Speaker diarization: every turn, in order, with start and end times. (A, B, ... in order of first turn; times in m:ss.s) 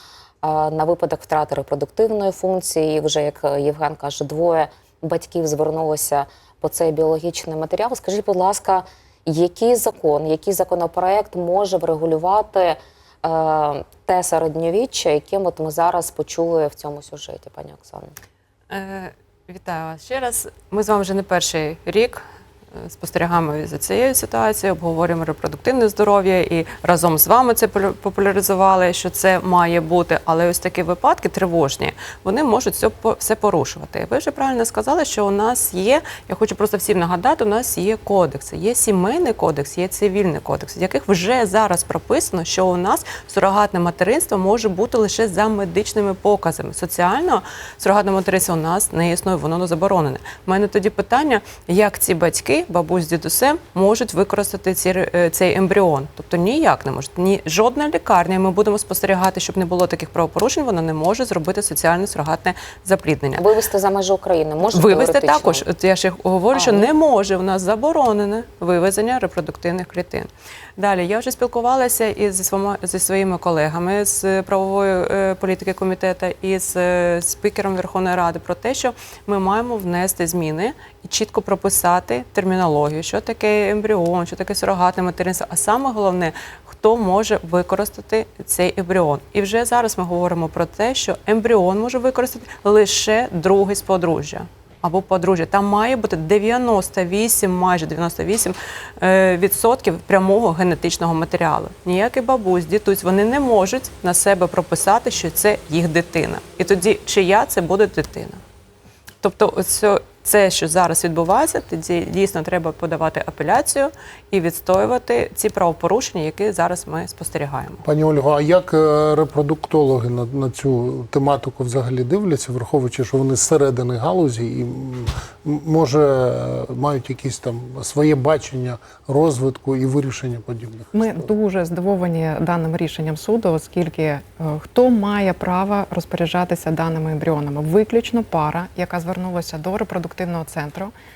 0:00.4-0:18.1 A
0:18.7-1:03.4 B
1:03.3-1:05.6 A
1:04.6-1:48.4 B
1:06.5-1:06.9 A
1:49.2-1:57.8 B
1:57.8-2:11.3 C
2:10.9-2:20.9 D